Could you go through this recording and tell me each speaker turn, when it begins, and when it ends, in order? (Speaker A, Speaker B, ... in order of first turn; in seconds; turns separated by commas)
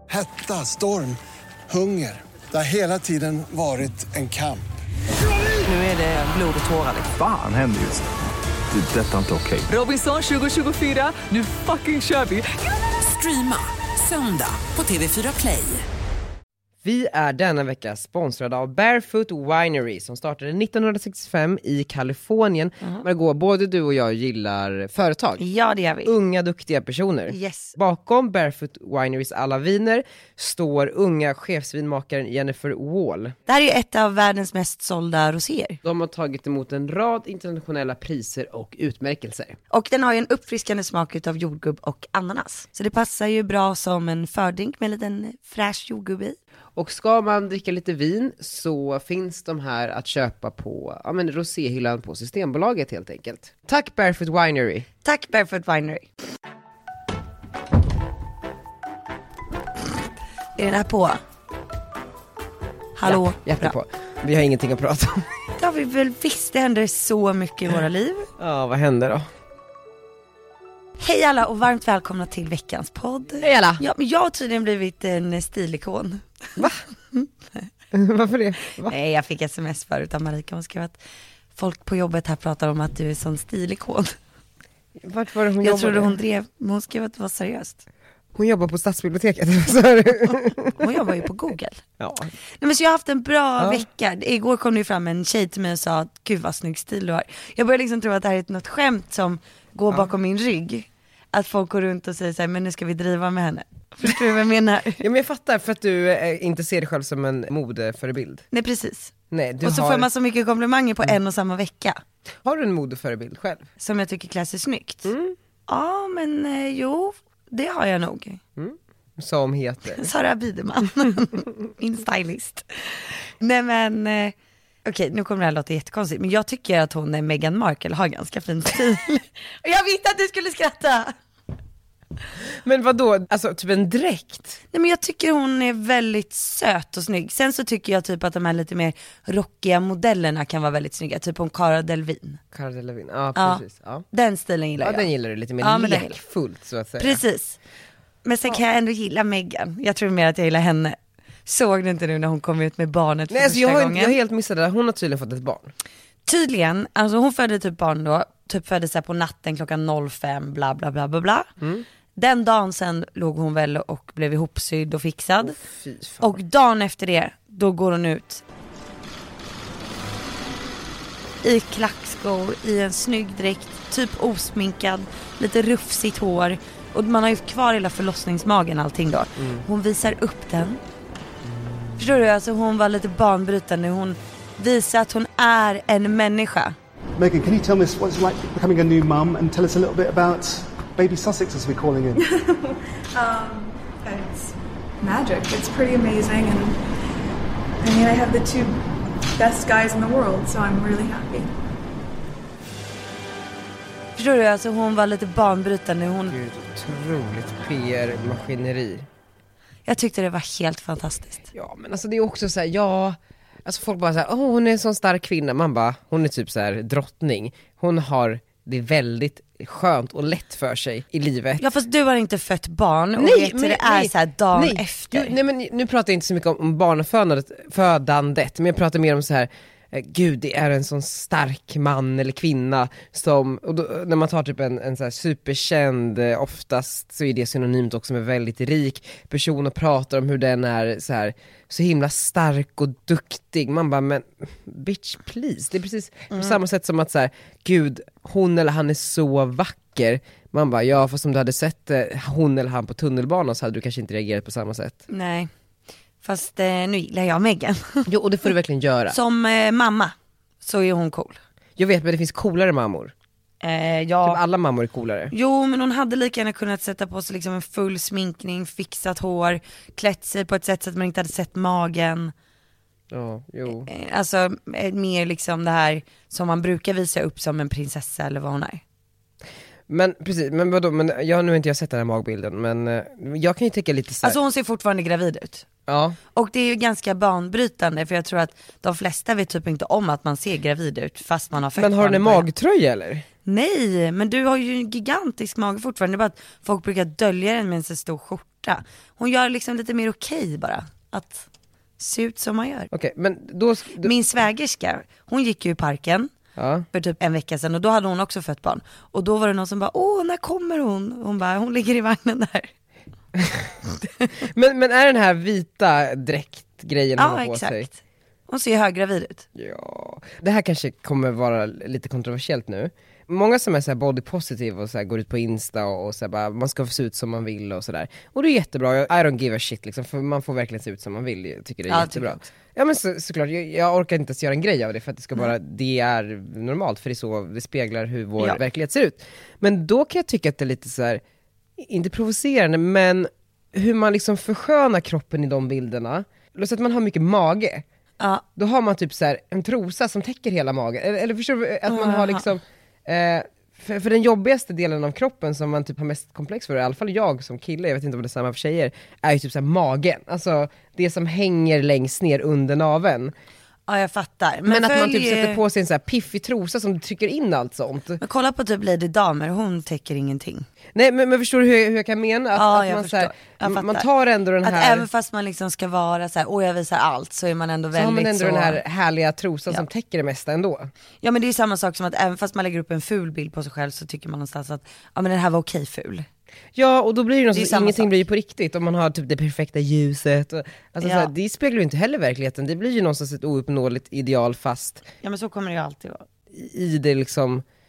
Speaker A: 0.1-4.7, Speaker B: 5.7-7.1, Speaker C: 7.1-8.1, Speaker C: 8.7-9.7, Speaker B: 9.7-15.9, Speaker D: 16.8-25.4, Speaker E: 25.4-26.1, Speaker D: 26.1-33.4, Speaker E: 27.3-27.8, Speaker E: 33.5-35.8, Speaker D: 35.8-39.6, Speaker E: 39.7-46.4, Speaker D: 46.8-54.9, Speaker E: 55.0-56.0, Speaker E: 60.6-61.2, Speaker E: 63.0-63.8, Speaker D: 63.0-65.3, Speaker E: 65.6-68.3, Speaker D: 68.4-69.3, Speaker E: 71.0-77.3, Speaker D: 73.4-73.8, Speaker D: 77.9-78.9, Speaker E: 78.8-81.0, Speaker E: 81.6-84.2, Speaker D: 85.0-86.2, Speaker E: 85.6-87.8, Speaker D: 88.3-90.8, Speaker E: 90.8-91.8, Speaker D: 92.0-92.3, Speaker E: 92.6-105.0, Speaker D: 93.6-93.8, Speaker D: 105.0-108.5, Speaker E: 108.5-112.0, Speaker D: 109.3-110.1, Speaker D: 112.4-113.7, Speaker E: 113.8-115.1, Speaker D: 115.0-115.4, Speaker E: 115.7-118.4, Speaker D: 118.6-120.1, Speaker E: 119.9-131.2, Speaker D: 132.6-134.6, Speaker E: 134.7-142.4, Speaker D: 142.5-144.1, Speaker E: 143.3-145.1, Speaker D: 144.8-147.2, Speaker E: 145.6-146.2, Speaker E: 147.0-147.6, Speaker E: 148.2-154.2, Speaker D: 153.3-155.7, Speaker E: 156.3-161.5, Speaker D: 161.6-161.8, Speaker E: 162.2-165.6, Speaker D: 165.4-166.3, Speaker E: 166.2-168.4, Speaker E: 171.4-180.8, Speaker D: 179.4-179.7, Speaker D: 181.4-182.1, Speaker E: 182.0-186.8, Speaker F: 187.2-192.2, Speaker G: 192.2-196.8, Speaker G: 197.8-198.8, Speaker G: 199.3-201.5, Speaker E: 204.2-206.3, Speaker D: 206.3-209.1, Speaker E: 209.9-211.4, Speaker D: 211.5-221.6, Speaker E: 221.6-225.4, Speaker D: 223.2-255.0, Speaker E: 246.3-246.6, Speaker E: 255.1-255.5, Speaker E: 256.2-258.1, Speaker D: 258.1-259.2, Speaker E: 259.1-261.4, Speaker D: 261.8-263.1, Speaker E: 263.6-264.4, Speaker D: 264.2-265.3, Speaker E: 265.3-272.3, Speaker D: 273.1-273.9, Speaker E: 273.7-278.8, Speaker D: 279.9-284.4, Speaker E: 284.2-285.7, Speaker D: 285.9-286.2, Speaker E: 286.3-292.5, Speaker D: 291.7-293.3, Speaker E: 293.4-301.5, Speaker E: 302.0-302.9, Speaker D: 302.9-304.1, Speaker E: 304.0-306.3, Speaker D: 306.6-306.9, Speaker E: 306.9-312.7, Speaker D: 313.4-313.7, Speaker D: 314.4-317.9, Speaker E: 317.2-319.5, Speaker D: 319.6-341.2, Speaker E: 331.9-332.5, Speaker D: 341.8-347.9, Speaker E: 348.2-348.4, Speaker D: 348.6-363.3, Speaker E: 351.9-352.5, Speaker E: 363.9-365.6, Speaker D: 364.7-368.2, Speaker E: 368.2-370.7, Speaker D: 370.9-375.1, Speaker E: 372.6-374.1, Speaker E: 374.6-378.8, Speaker D: 377.9-380.9, Speaker E: 381.2-386.3, Speaker D: 386.8-395.1, Speaker E: 387.5-388.1, Speaker E: 391.0-391.3, Speaker E: 395.2-396.3, Speaker D: 396.5-397.6